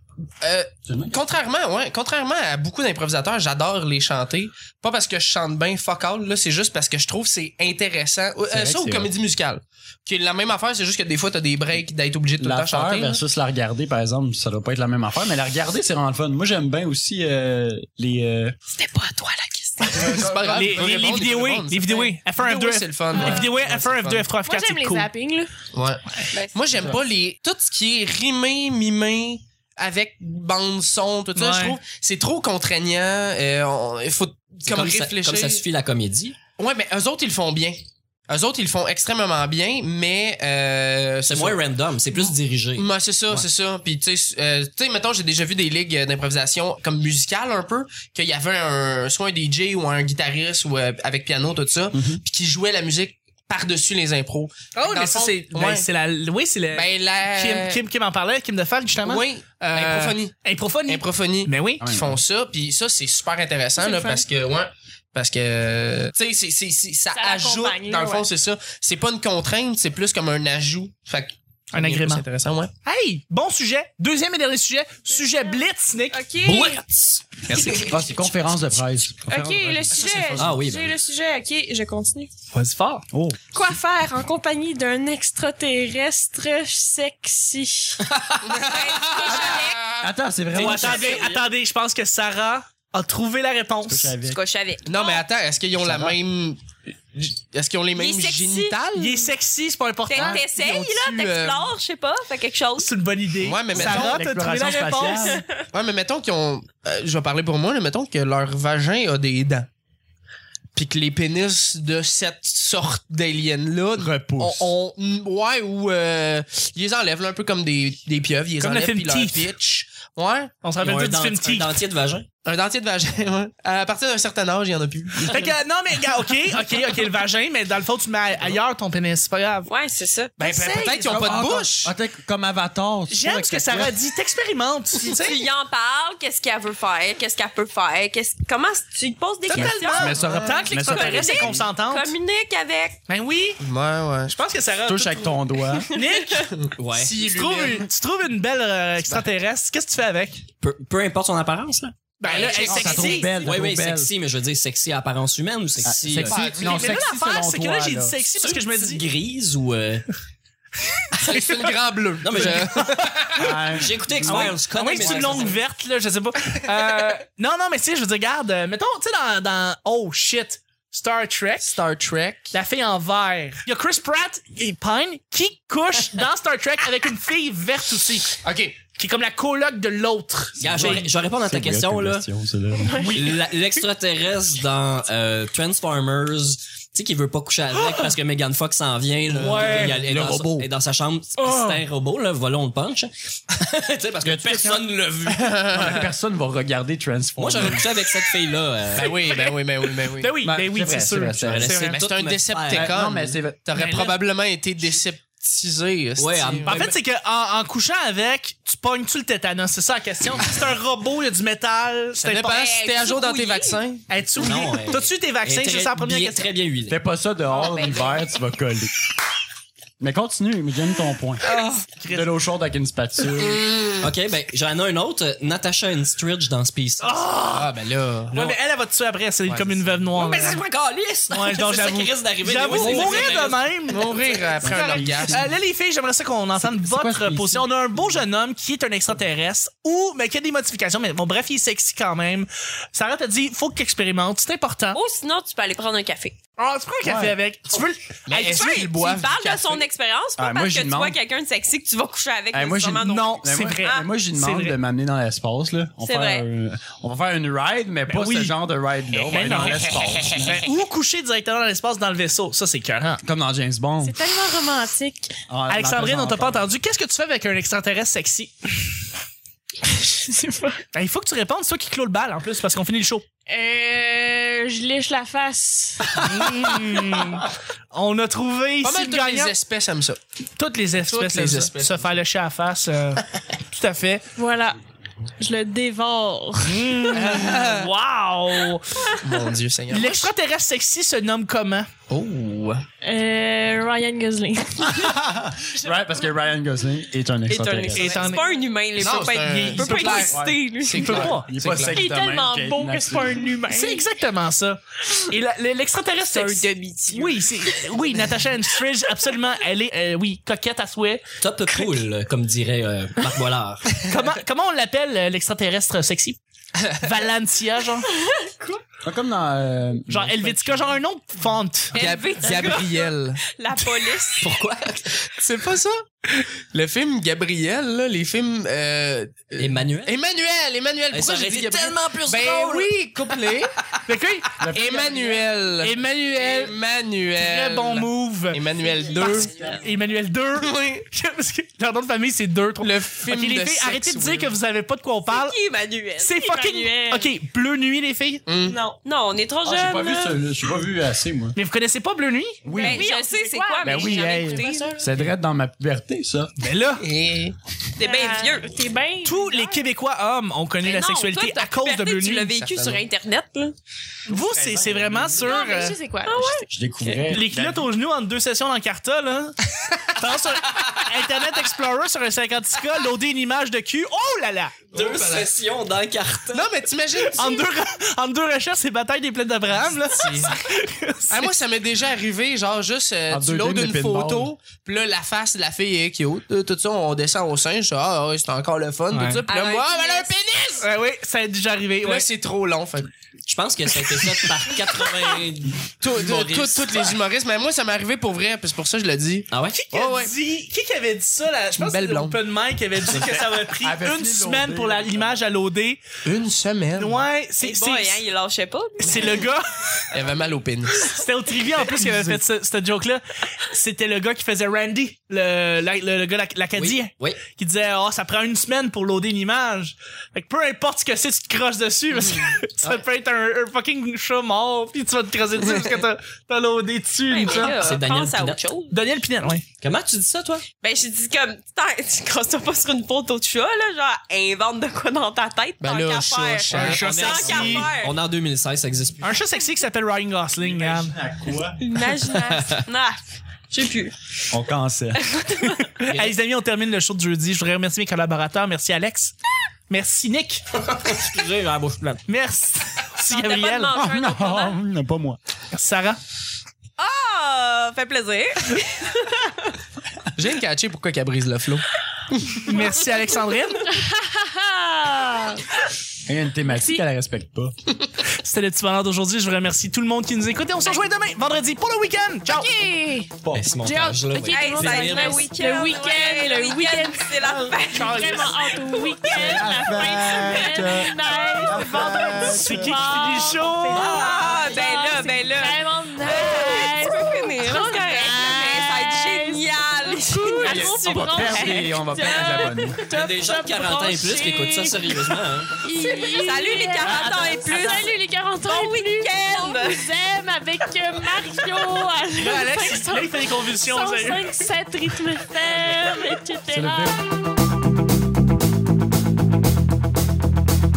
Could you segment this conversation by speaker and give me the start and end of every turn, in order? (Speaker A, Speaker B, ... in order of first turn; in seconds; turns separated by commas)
Speaker A: 0.4-13.2, Speaker B: 0.9-1.2, Speaker B: 8.5-9.1, Speaker B: 12.4-18.6, Speaker C: 18.7-20.2, Speaker B: 19.8-21.2, Speaker A: 19.8-24.2, Speaker D: 20.5-25.1, Speaker E: 23.1-23.5, Speaker E: 24.4-25.5, Speaker A: 25.7-35.6, Speaker C: 26.3-26.8, Speaker D: 31.3-31.8, Speaker F: 34.7-36.4, Speaker A: 36.6-41.6, Speaker F: 41.3-42.9, Speaker A: 42.1-55.9, Speaker B: 51.9-52.2, Speaker D: 54.7-61.8, Speaker A: 56.7-57.8, Speaker A: 59.0-72.7, Speaker B: 61.8-62.2, Speaker E: 63.8-64.2, Speaker E: 67.1-68.2, Speaker D: 71.7-72.2, Speaker D: 72.8-76.8, Speaker E: 75.4-76.8, Speaker D: 77.5-78.0, Speaker B: 77.6-80.5, Speaker E: 79.3-82.3, Speaker D: 79.3-80.4, Speaker F: 80.4-80.9, Speaker D: 82.5-83.0, Speaker B: 83.1-83.4, Speaker E: 83.5-88.0, Speaker A: 88.4-90.1, Speaker C: 88.6-89.9, Speaker B: 89.3-91.2, Speaker D: 90.5-94.1, Speaker F: 90.6-91.3, Speaker C: 90.8-91.3, Speaker B: 93.8-94.4, Speaker C: 94.2-95.2, Speaker A: 94.8-96.6, Speaker B: 95.8-96.2, Speaker A: 97.1-99.3, Speaker C: 97.9-98.8, Speaker D: 98.9-100.4, Speaker C: 100.0-102.9, Speaker B: 100.1-100.4, Speaker A: 100.3-101.7, Speaker D: 102.8-105.4, Speaker A: 103.4-104.2, Speaker B: 103.7-105.4, Speaker C: 104.9-105.7, Speaker A: 105.7-109.7, Speaker A: 110.7-120.5, Speaker B: 114.0-114.7, Speaker D: 118.6-119.5, Speaker D: 120.6-121.8, Speaker F: 120.8-122.3, Speaker A: 122.4-125.6, Speaker D: 125.2-129.7, Speaker C: 129.7-130.4, Speaker D: 130.4-131.4, Speaker A: 130.4-131.9, Speaker B: 131.0-133.9, Speaker D: 133.1-135.4, Speaker C: 135.0-143.0, Speaker D: 139.4-142.1, Speaker B: 139.5-141.7, Speaker A: 140.2-140.7, Speaker D: 143.1-143.6, Speaker A: 143.6-144.4, Speaker D: 144.3-146.5, Speaker B: 144.8-145.9, Speaker C: 146.0-146.4, Speaker A: 146.5-147.9, Speaker F: 146.8-147.1, Speaker D: 147.2-150.4, Speaker F: 150.6-152.0, Speaker D: 152.2-153.4, Speaker A: 152.2-153.2, Speaker C: 152.3-153.2, Speaker B: 152.6-154.1, Speaker F: 153.3-156.4, Speaker B: 155.8-158.2, Speaker A: 156.2-157.1, Speaker D: 156.5-159.0, Speaker F: 158.3-160.1, Speaker D: 161.0-161.8, Speaker A: 161.2-163.6, Speaker F: 162.2-162.9, Speaker D: 162.4-162.6, Speaker B: 163.3-165.6, Speaker F: 163.7-165.6, Speaker D: 164.2-171.7, Speaker A: 171.6-172.5, Speaker D: 172.5-181.1, Speaker A: 178.4-178.8, Speaker F: 180.6-182.2, Speaker B: 180.7-183.2, Speaker E: 182.8-183.1, Speaker F: 183.0-195.6, Speaker D: 183.0-183.3, Speaker A: 189.4-189.9, Speaker D: 189.4-190.0, Speaker B: 189.4-190.7, Speaker B: 194.2-194.9, Speaker A: 195.3-196.1, Speaker B: 195.7-197.9, Speaker F: 197.4-199.3, Speaker A: 198.9-200.4, Speaker D: 200.1-202.0, Speaker B: 200.4-201.8, Speaker F: 201.4-203.0, Speaker A: 201.9-206.9, Speaker B: 202.7-203.6, Speaker D: 203.8-204.2, Speaker F: 206.2-206.8, Speaker D: 206.7-212.6, Speaker A: 212.2-214.1, Speaker C: 212.5-213.8, Speaker D: 214.1-216.4, Speaker F: 214.4-217.0, Speaker B: 216.9-218.9, Speaker C: 217.5-218.2, Speaker B: 220.0-221.6, Speaker C: 221.6-221.8, Speaker D: 222.0-222.3, Speaker B: 222.1-223.7, Speaker A: 223.4-224.1, Speaker F: 224.0-227.2, Speaker D: 227.0-227.7, Speaker A: 227.5-228.6, Speaker D: 228.3-230.6, Speaker F: 230.1-233.6, Speaker D: 231.3-245.0, Speaker A: 232.6-235.5, Speaker B: 234.6-235.5, Speaker B: 236.6-238.1, Speaker C: 244.9-246.4, Speaker D: 246.6-248.8, Speaker B: 247.0-247.3, Speaker A: 248.2-249.8, Speaker C: 248.3-254.1, Speaker B: 250.4-251.2, Speaker B: 252.5-260.6, Speaker D: 253.2-254.8, Speaker C: 256.0-256.4, Speaker D: 258.1-258.5, Speaker D: 259.1-263.2, Speaker B: 263.2-264.1, Speaker E: 264.0-265.3, Speaker B: 265.5-266.6, Speaker D: 265.7-268.8, Speaker E: 270.0-270.8, Speaker D: 270.9-273.2, Speaker E: 273.5-276.1, Speaker D: 276.1-279.5, Speaker A: 278.8-280.2, Speaker D: 280.6-284.2, Speaker A: 280.9-282.2, Speaker E: 284.4-284.8, Speaker E: 285.4-287.0, Speaker D: 286.6-289.2, Speaker A: 287.1-287.9, Speaker A: 289.2-290.3, Speaker D: 289.9-291.9, Speaker A: 292.1-292.8, Speaker E: 293.0-296.4, Speaker B: 294.8-298.2, Speaker C: 297.5-301.4, Speaker D: 297.9-298.4, Speaker A: 299.0-302.0, Speaker D: 299.5-300.3, Speaker B: 300.2-300.6, Speaker D: 301.0-301.5, Speaker B: 301.4-303.5, Speaker E: 301.9-304.0, Speaker D: 303.7-311.2, Speaker C: 306.2-307.7, Speaker F: 311.4-314.0, Speaker C: 311.7-312.0, Speaker D: 314.0-316.4, Speaker A: 316.8-317.1, Speaker D: 317.0-318.1, Speaker C: 318.2-318.8, Speaker B: 319.0-321.0, Speaker D: 320.1-322.0, Speaker C: 321.9-324.6, Speaker A: 321.9-323.4, Speaker F: 324.4-325.0, Speaker A: 325.2-333.7, Speaker F: 329.6-330.2, Speaker F: 331.1-333.4, Speaker D: 334.1-334.6, Speaker B: 334.6-335.4, Speaker A: 334.6-339.6, Speaker D: 335.8-336.7, Speaker D: 337.4-345.6, Speaker C: 338.8-339.8, Speaker A: 340.6-341.1, Speaker A: 342.8-344.5, Speaker C: 345.2-347.3, Speaker D: 346.2-348.4, Speaker A: 348.4-348.8, Speaker E: 348.7-348.9, Speaker C: 348.9-350.4, Speaker B: 349.6-351.6, Speaker D: 351.6-352.6, Speaker B: 352.6-353.0, Speaker C: 352.7-355.1, Speaker E: 352.7-355.1, Speaker B: 353.8-356.5, Speaker D: 356.6-357.1, Speaker A: 357.0-357.6, Speaker C: 357.9-358.7, Speaker E: 358.0-359.9, Speaker D: 359.2-362.5, Speaker C: 360.8-363.8, Speaker A: 362.5-363.0, Speaker B: 364.3-365.5, Speaker D: 364.3-366.0, Speaker E: 365.4-366.7, Speaker C: 366.2-367.4, Speaker B: 366.7-367.9, Speaker D: 367.3-369.6, Speaker D: 370.1-374.8, Speaker A: 374.9-375.5, Speaker F: 374.9-376.7, Speaker A: 376.5-377.7, Speaker D: 377.3-381.5, Speaker A: 379.8-380.6, Speaker A: 381.3-390.9, Speaker B: 383.3-384.5, Speaker D: 389.1-389.4, Speaker C: 389.5-390.3, Speaker D: 390.8-392.3, Speaker A: 392.0-393.1, Speaker F: 393.4-396.9, Speaker A: 396.0-400.3, Speaker F: 399.5-399.8, Speaker D: 399.7-406.0, Speaker A: 401.8-402.4, Speaker B: 403.8-405.4, Speaker A: 406.2-407.2, Speaker D: 407.0-408.2, Speaker C: 407.6-409.4, Speaker D: 409.0-409.8, Speaker A: 410.1-411.1, Speaker D: 411.0-427.8, Speaker F: 416.8-417.4, Speaker C: 427.2-429.0, Speaker F: 427.5-428.7, Speaker D: 428.9-429.6, Speaker F: 429.8-430.6, Speaker C: 430.8-438.2, Speaker A: 435.8-437.9, Speaker D: 436.7-437.9, Speaker F: 436.9-439.4, Speaker D: 439.2-441.1, Speaker B: 440.6-441.8, Speaker C: 441.8-443.2, Speaker F: 442.4-442.8, Speaker C: 443.7-444.2, Speaker B: 444.5-445.2, Speaker C: 445.1-445.9, Speaker D: 446.0-449.3, Speaker F: 446.1-446.3, Speaker D: 449.9-450.6, Speaker F: 450.9-452.2, Speaker D: 452.3-453.9, Speaker C: 453.2-454.8, Speaker B: 453.9-455.4, Speaker D: 455.7-456.2, Speaker C: 457.0-459.5, Speaker A: 460.3-462.7, Speaker D: 462.6-463.9, Speaker E: 463.9-465.6, Speaker B: 466.2-467.7, Speaker E: 466.7-467.0, Speaker D: 468.3-472.7, Speaker E: 472.4-473.3, Speaker B: 473.4-473.8, Speaker F: 473.5-475.4, Speaker E: 473.8-507.1, Speaker C: 474.3-479.2, Speaker D: 478.0-478.6, Speaker B: 479.3-483.0, Speaker D: 482.5-484.1, Speaker F: 483.9-485.0, Speaker C: 484.0-492.7, Speaker B: 490.6-493.0, Speaker F: 493.1-495.7, Speaker C: 495.9-500.1, Speaker D: 502.4-504.5, Speaker B: 506.7-507.2